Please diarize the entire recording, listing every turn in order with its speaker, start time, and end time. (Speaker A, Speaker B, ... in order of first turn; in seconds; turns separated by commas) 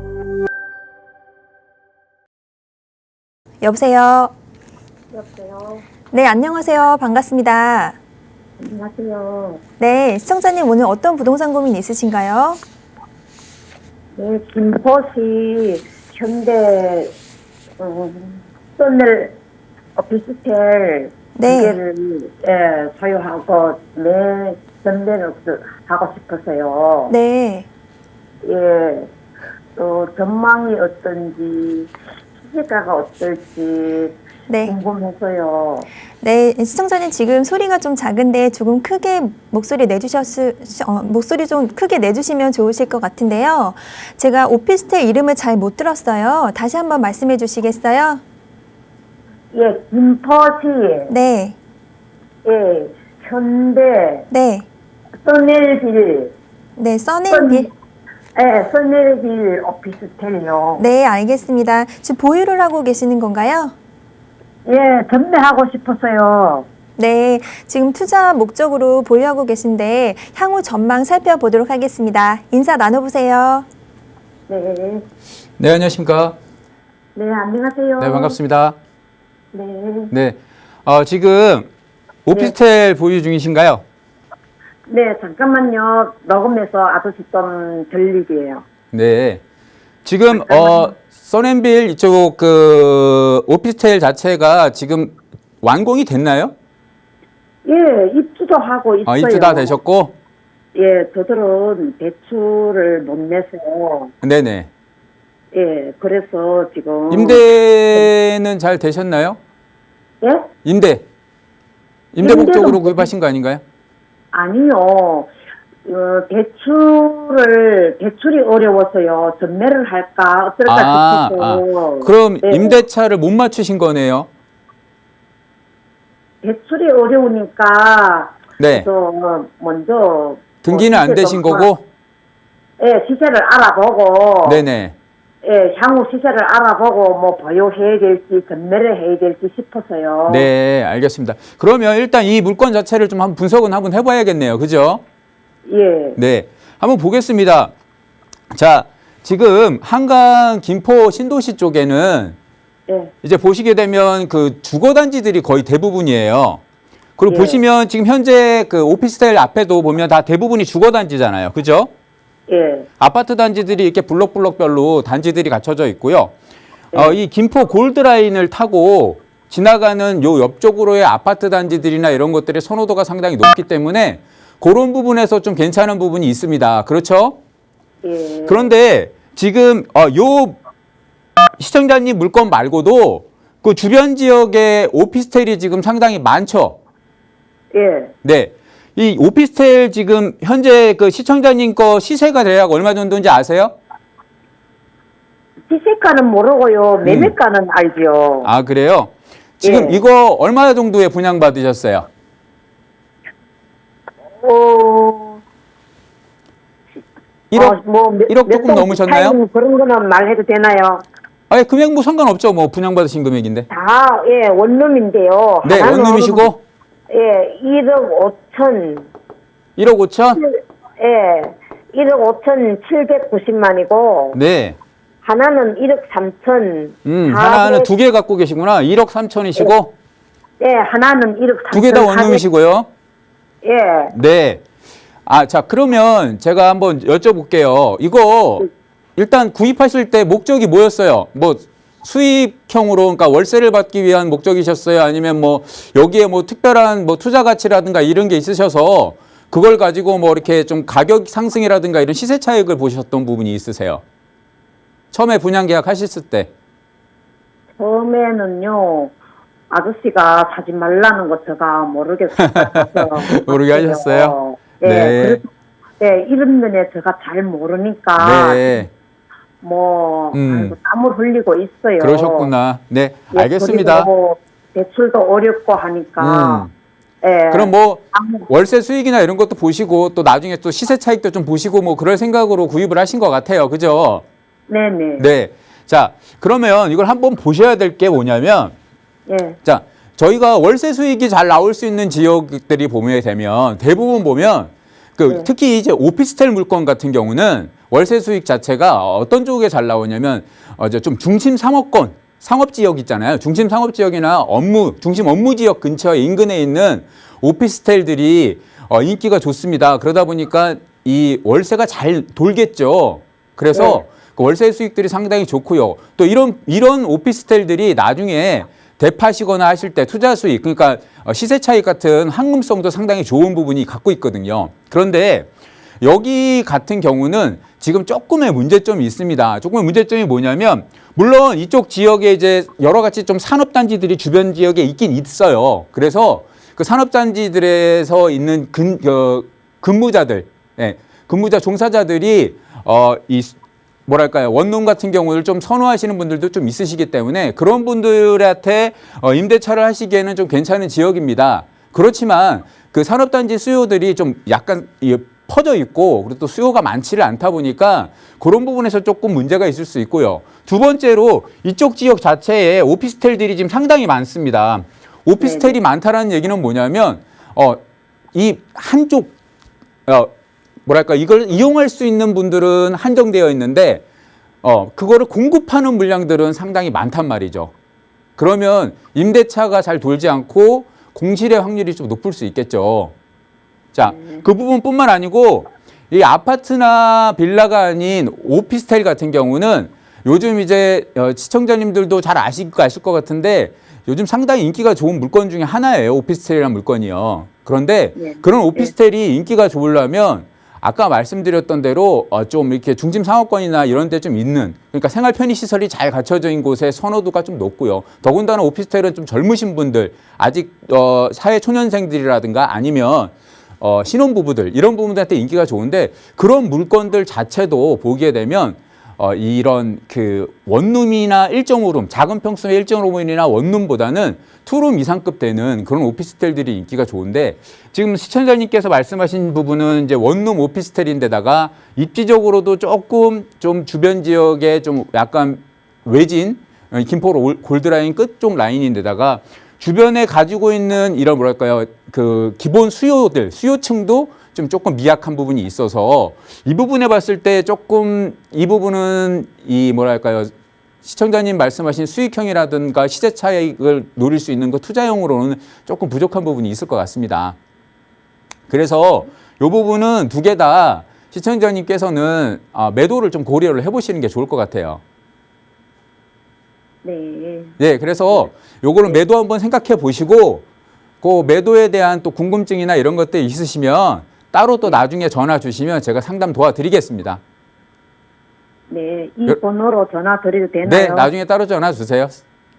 Speaker A: 3.6-4.3, Speaker B: 5.1-5.8, Speaker A: 6.1-8.0, Speaker B: 8.6-9.6, Speaker A: 9.8-12.6, Speaker B: 14.2-17.1, Speaker B: 17.8-19.4, Speaker B: 20.0-27.1, Speaker A: 21.4-21.8, Speaker A: 27.1-27.7, Speaker B: 28.4-29.1, Speaker B: 29.8-35.9, Speaker A: 34.5-34.8, Speaker A: 36.2-48.2, Speaker B: 49.5-51.1, Speaker A: 51.1-51.6, Speaker B: 52.5-54.3, Speaker A: 54.3-54.7, Speaker B: 55.2-56.3, Speaker A: 56.8-57.7, Speaker B: 57.3-57.7, Speaker B: 58.4-60.9, Speaker A: 60.8-63.7, Speaker B: 64.7-66.7, Speaker A: 67.0-73.7, Speaker B: 74.5-75.0, Speaker C: 75.6-76.4, Speaker B: 77.2-78.4, Speaker C: 78.0-78.8, Speaker B: 79.5-80.1, Speaker C: 80.1-81.7, Speaker C: 82.3-83.8, Speaker B: 84.9-88.6, Speaker C: 88.9-89.4, Speaker C: 90.0-96.5, Speaker B: 90.3-90.9, Speaker B: 97.7-99.8, Speaker C: 99.1-100.2, Speaker B: 100.8-104.1, Speaker C: 104.2-104.7, Speaker B: 105.5-107.4, Speaker C: 107.1-109.4, Speaker B: 110.2-110.5, Speaker C: 110.7-111.0, Speaker C: 112.2-113.6, Speaker B: 112.2-113.1, Speaker B: 114.3-115.3, Speaker B: 115.9-122.8, Speaker C: 120.7-124.3, Speaker B: 126.4-131.7, Speaker C: 128.6-128.9, Speaker C: 130.6-131.8, Speaker B: 132.8-134.6, Speaker C: 134.4-134.9, Speaker B: 135.4-140.5, Speaker C: 140.3-145.0, Speaker B: 145.7-146.2, Speaker C: 146.2-147.7, Speaker C: 148.5-152.4, Speaker C: 153.2-156.6, Speaker C: 157.2-161.9, Speaker B: 157.3-157.6, Speaker B: 162.5-162.9, Speaker C: 163.0-166.3, Speaker C: 166.9-177.4, Speaker B: 178.0-178.7, Speaker C: 178.5-180.6, Speaker C: 181.6-186.8, Speaker B: 187.7-188.1, Speaker C: 188.2-193.8, Speaker B: 195.7-198.5, Speaker C: 197.0-197.3, Speaker C: 198.4-202.1, Speaker B: 199.6-200.0, Speaker B: 204.4-205.4, Speaker C: 207.5-207.8, Speaker B: 207.5-211.1, Speaker C: 208.3-209.4, Speaker C: 211.5-213.7, Speaker B: 213.7-216.5, Speaker C: 215.6-216.6, Speaker B: 217.1-219.1, Speaker C: 219.8-220.4, Speaker B: 220.4-224.4, Speaker C: 224.3-224.8, Speaker B: 225.2-227.9, Speaker C: 227.1-229.9, Speaker B: 230.6-232.4, Speaker C: 231.7-232.9, Speaker B: 233.6-234.1, Speaker C: 234.1-234.6, Speaker C: 235.3-254.0, Speaker C: 255.1-256.5, Speaker B: 257.8-259.1, Speaker B: 259.7-265.5, Speaker C: 262.4-265.4, Speaker B: 266.0-268.9, Speaker C: 268.2-268.9, Speaker B: 269.6-272.5, Speaker C: 270.3-270.8, Speaker C: 272.0-274.1, Speaker B: 273.3-276.7, Speaker C: 276.2-276.7, Speaker B: 277.2-278.4, Speaker C: 277.5-284.2, Speaker B: 284.7-285.3, Speaker C: 285.2-288.7, Speaker B: 289.3-289.6, Speaker C: 289.6-325.5, Speaker B: 313.7-314.0, Speaker C: 326.0-343.6, Speaker C: 344.1-367.8, Speaker B: 365.4-365.8, Speaker C: 368.3-369.3, Speaker C: 370.9-374.0, Speaker C: 374.6-377.7, Speaker C: 378.4-383.1, Speaker C: 383.9-450.5, Speaker B: 384.0-384.4, Speaker B: 398.2-398.9, Speaker C: 451.0-457.6, Speaker C: 458.7-465.0, Speaker B: 467.0-467.8, Speaker C: 467.8-470.6, Speaker C: 471.2-477.4, Speaker B: 478.9-481.3, Speaker C: 480.8-482.4